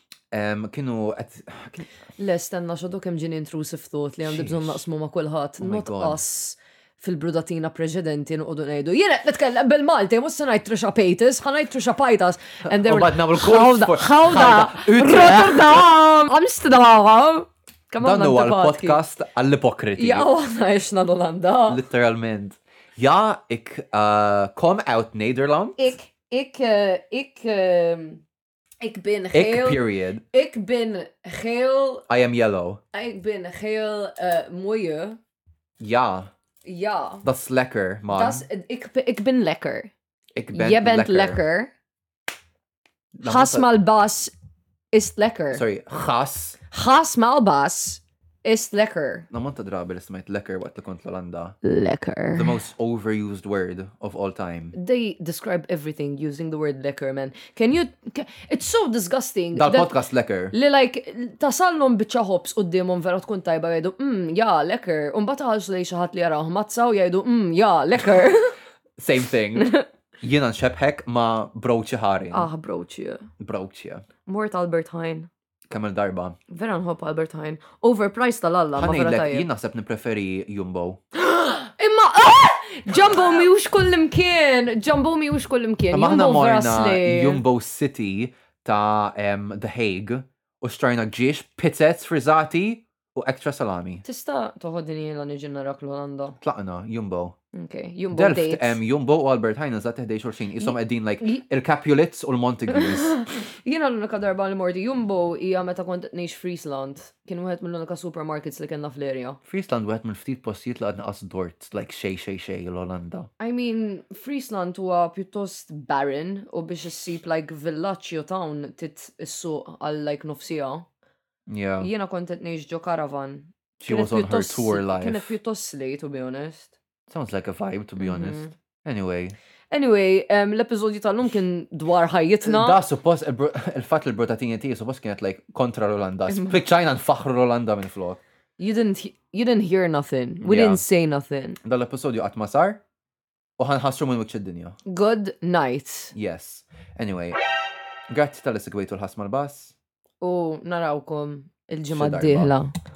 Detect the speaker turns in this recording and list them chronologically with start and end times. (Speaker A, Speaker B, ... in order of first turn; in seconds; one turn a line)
Speaker A: 0.3-1.9
Speaker B: 2.2-19.0
Speaker A: 4.2-4.8
Speaker A: 5.6-6.2
Speaker A: 12.7-15.9
Speaker A: 18.0-20.3
Speaker B: 20.0-21.8
Speaker A: 21.7-25.9
Speaker B: 25.8-28.2
Speaker B: 28.8-32.0
Speaker A: 29.3-30.2
Speaker A: 32.1-32.8
Speaker B: 32.9-35.2
Speaker A: 35.8-36.3
Speaker B: 36.6-37.2
Speaker A: 37.2-38.4
Speaker B: 38.1-39.9
Speaker A: 40.4-41.4
Speaker B: 40.5-41.7
Speaker A: 43.2-43.7
Speaker B: 43.2-44.3
Speaker B: 44.9-45.6
Speaker A: 45.5-46.6
Speaker B: 46.7-49.3
Speaker A: 49.3-51.6
Speaker B: 51.6-52.6
Speaker A: 52.4-54.8
Speaker B: 54.7-60.0
Speaker A: 59.5-60.5
Speaker B: 60.5-68.5
Speaker A: 69.0-72.5
Speaker B: 69.6-69.8
Speaker B: 72.3-73.3
Speaker A: 73.4-74.0
Speaker B: 74.3-75.3
Speaker A: 75.7-76.4
Speaker B: 76.5-79.5
Speaker A: 78.8-81.0
Speaker B: 81.2-87.4
Speaker A: 85.9-94.0
Speaker B: 94.0-96.4
Speaker A: 96.4-97.4
Speaker B: 97.5-98.8
Speaker A: 98.1-103.2
Speaker B: 100.6-101.4
Speaker B: 102.7-109.4
Speaker A: 109.5-113.3
Speaker B: 113.4-120.9
Speaker A: 121.5-121.9
Speaker B: 121.8-126.7
Speaker A: 123.8-125.3
Speaker A: 127.1-129.4
Speaker B: 128.0-128.5
Speaker B: 129.7-132.8
Speaker A: 132.4-138.2
Speaker B: 136.3-136.6
Speaker B: 138.6-141.6
Speaker A: 140.4-140.8
Speaker A: 141.6-142.8
Speaker A: 143.6-144.8
Speaker B: 144.9-146.1
Speaker A: 146.1-147.4
Speaker A: 148.1-149.8
Speaker B: 150.2-152.7
Speaker A: 151.9-152.5